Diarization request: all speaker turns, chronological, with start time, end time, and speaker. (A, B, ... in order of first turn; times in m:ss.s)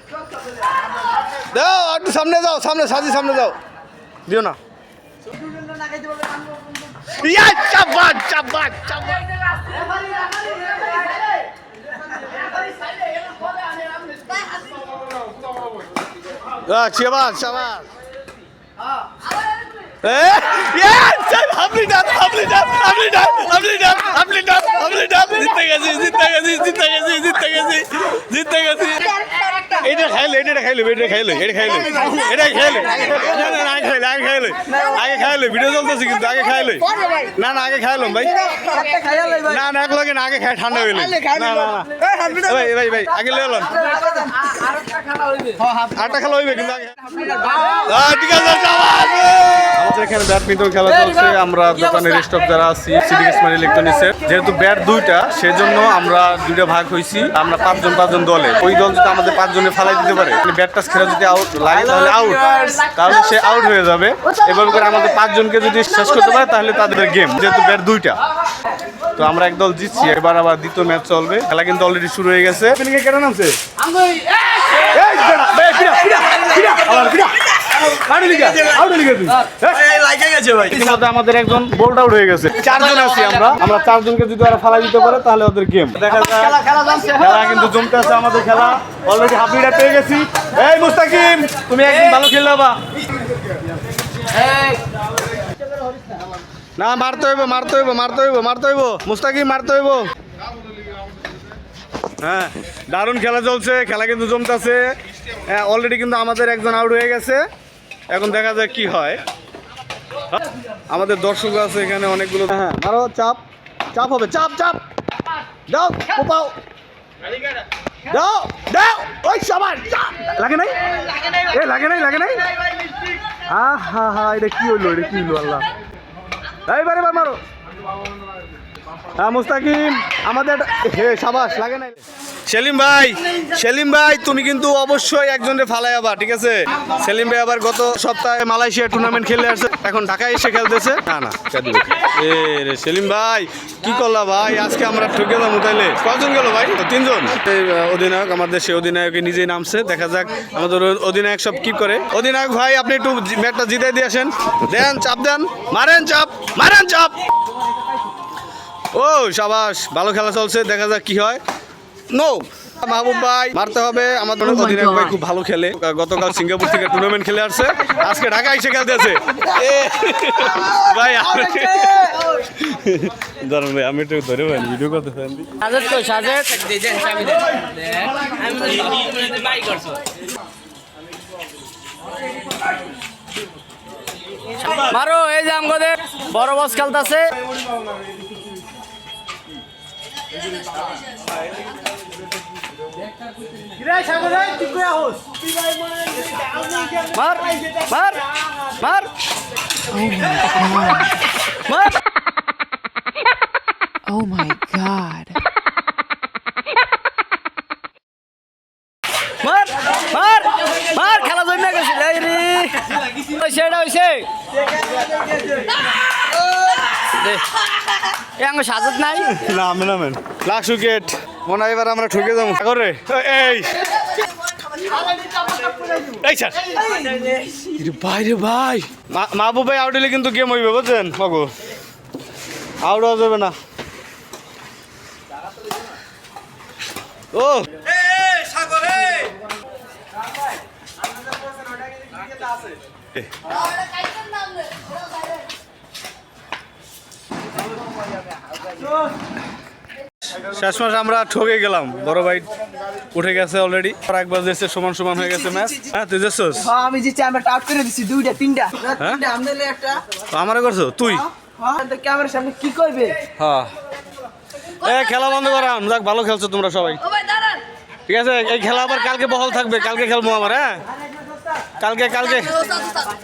0:01.4-0:03.6 A
0:04.3-0:04.6 A
0:05.5-0:06.4 B
0:07.1-0:09.3 A
0:16.6-0:17.8 A
0:20.0-0:38.7 A
0:37.0-0:37.2 B
0:38.6-0:39.6 B
0:39.5-0:43.8 A
0:41.0-0:42.4 B
0:43.7-0:44.5 B
0:44.5-0:45.7 C
0:45.7-0:47.1 A
0:47.2-0:47.8 B
0:47.7-1:08.2 A
1:01.9-1:02.3 C
1:09.2-1:13.6 A
1:14.8-1:20.0 A
1:20.0-1:20.4 C
1:20.6-1:32.8 A
1:23.0-1:23.2 C
1:26.2-1:27.4 C
1:36.8-1:40.1 A
1:42.2-1:47.4 A
1:48.1-1:49.2 A
1:50.9-1:53.4 A
1:53.9-1:54.8 A
1:55.7-1:56.5 A
1:58.1-2:00.7 A
2:01.4-2:02.4 A
2:03.5-2:05.7 A
2:06.6-2:07.4 A
2:09.1-2:37.1 A
2:38.9-2:41.4 A
2:42.1-2:55.5 A
2:44.5-2:45.1 C
2:50.8-2:52.4 B
2:55.6-3:00.0 C
3:04.6-3:07.5 C
3:14.0-3:15.2 C
3:16.9-3:18.3 C
3:18.8-3:19.1 C
3:19.9-3:21.1 C
3:21.7-3:22.0 C
3:24.0-3:25.3 C
3:29.4-3:34.3 C
3:35.0-3:35.7 B
3:37.0-3:37.4 C
3:38.4-3:39.4 C
3:39.3-3:43.8 A
3:45.3-3:45.8 B
3:46.1-3:46.9 A
3:47.6-3:51.5 A
3:52.8-3:53.5 A
3:57.3-3:59.0 A
4:10.3-4:12.5 A
4:13.1-4:16.7 A
4:16.6-4:20.0 B
4:19.0-4:19.2 A
4:20.3-4:21.2 A
4:21.5-4:23.2 B
4:23.3-4:23.7 A
4:24.8-4:27.5 A
4:28.1-4:30.8 A
4:31.8-4:32.9 A